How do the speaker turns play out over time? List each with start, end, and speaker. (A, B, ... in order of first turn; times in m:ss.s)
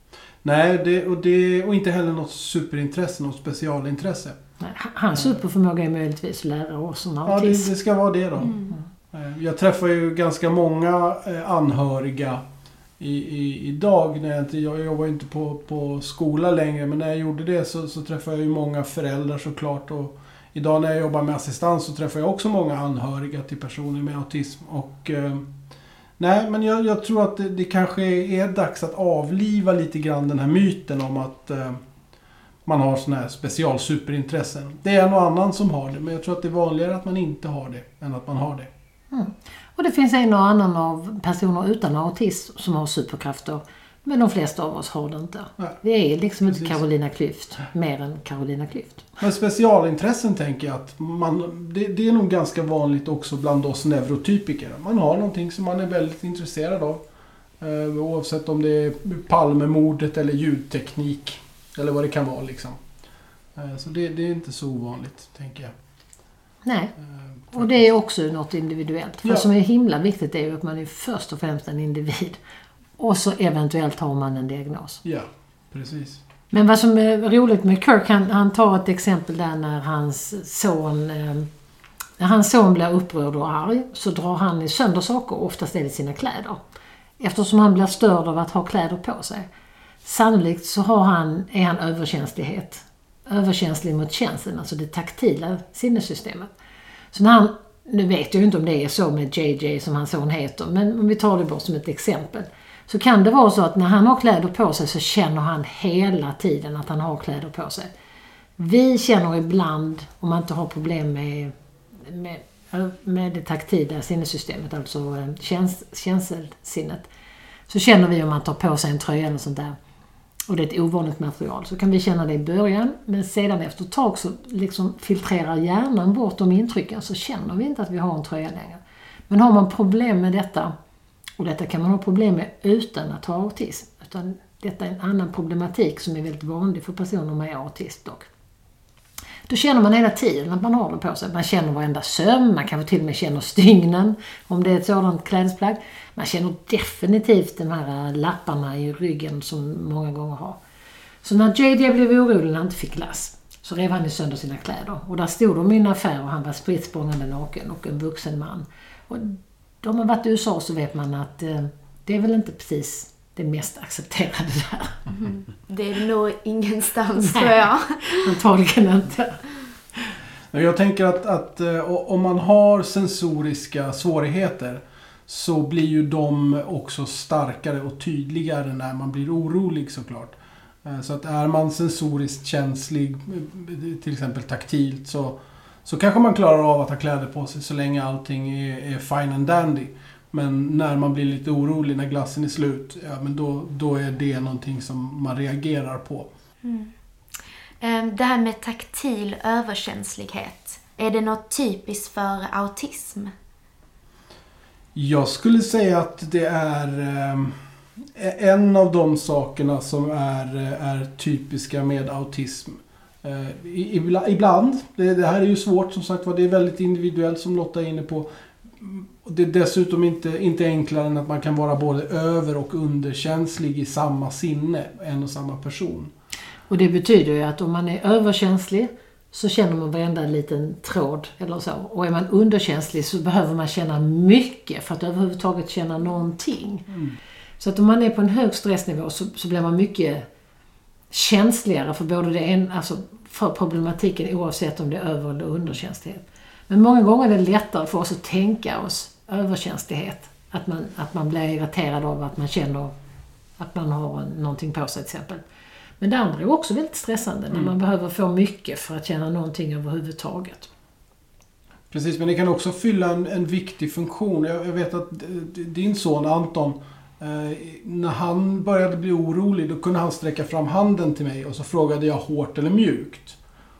0:00.4-0:04.4 A
0:04.6-0:07.7 B
0:07.2-0:08.6 A
0:09.1-0:12.4 A
0:13.0-0:25.5 A
0:26.2-0:31.8 A
0:32.6-0:38.7 A
0:39.1-0:49.1 B
0:49.2-0:57.0 A
0:57.6-1:02.8 A
1:03.5-1:05.7 A
1:06.6-1:06.9 B
1:07.5-1:12.4 B
1:13.0-1:15.0 B
1:15.0-1:16.2 A
1:16.5-1:21.5 B
1:22.2-1:26.6 B
1:27.2-1:29.5 B
1:30.0-1:36.5 B
1:37.1-1:47.9 B
1:48.6-1:57.1 B
1:57.7-1:59.8 B
2:00.5-2:10.7 B
2:11.4-2:18.3 B
2:19.5-2:30.6 B
2:31.2-2:45.0 B
2:45.1-2:48.3 C
2:47.2-2:49.4 B
2:50.5-3:16.3 A
3:16.6-3:16.9 C
3:17.8-3:23.3 C
3:24.9-3:27.5 A
3:28.1-3:46.1 A
3:46.7-3:56.9 B
3:57.6-4:00.3 B
4:01.1-4:12.9 B
4:13.6-4:15.4 B
4:16.0-4:20.7 B
4:21.9-4:33.4 A